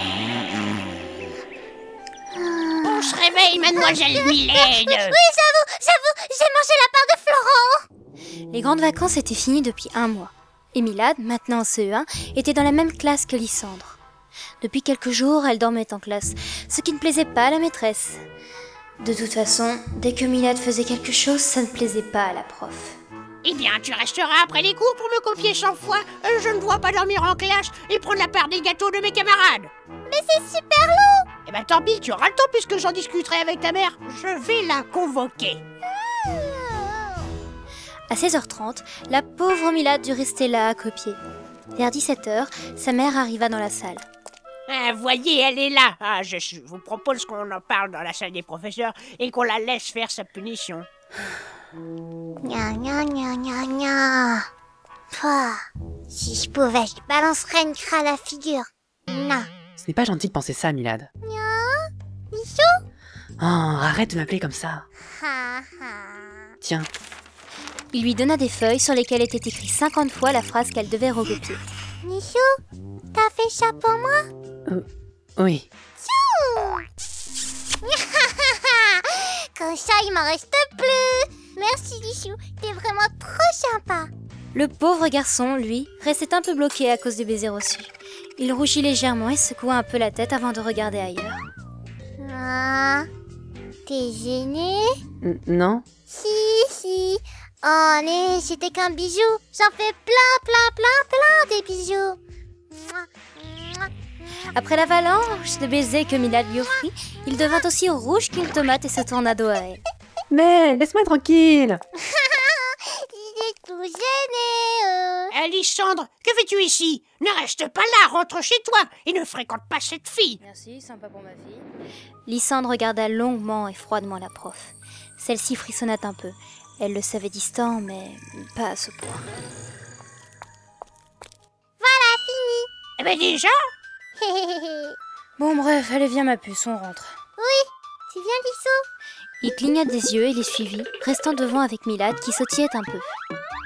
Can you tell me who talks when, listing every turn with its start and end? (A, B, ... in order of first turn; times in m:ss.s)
0:02.3-0:03.0 A
0:02.8-0:05.2 B
0:03.7-0:07.8 A
0:08.5-0:14.0 C
0:14.6-0:18.2 C
0:19.0-0:23.0 C
0:23.4-0:29.7 B
0:30.1-0:31.3 A
0:31.4-0:35.6 B
0:36.1-0:37.2 A
0:38.1-0:41.2 C
0:41.7-0:44.0 C
0:44.7-0:50.9 B
0:52.4-0:54.5 A
0:55.1-0:59.5 A
0:59.8-1:01.1 D
1:01.2-1:02.7 A
1:03.4-1:04.9 D
1:05.1-1:06.5 A
1:06.6-1:06.9 D
1:07.9-1:11.6 C
1:12.0-1:12.5 A
1:13.1-1:14.2 A
1:15.4-1:15.7 D
1:16.0-1:16.8 A
1:17.8-1:24.1 A
1:24.5-1:31.4 C
1:32.2-1:33.1 A
1:33.9-1:34.9 A
1:35.2-1:35.8 D
1:36.1-1:42.2 A
1:42.7-1:43.9 A
1:44.5-1:49.8 C
1:50.3-1:51.8 D
1:52.0-1:55.3 A
1:55.3-2:00.4 B
2:00.4-2:01.7 C
2:02.3-2:09.2 C
2:11.8-2:12.7 A
2:13.0-2:13.6 B
2:14.2-2:15.0 A
2:15.4-2:17.1 C
2:17.4-2:18.8 A
2:19.4-2:23.2 C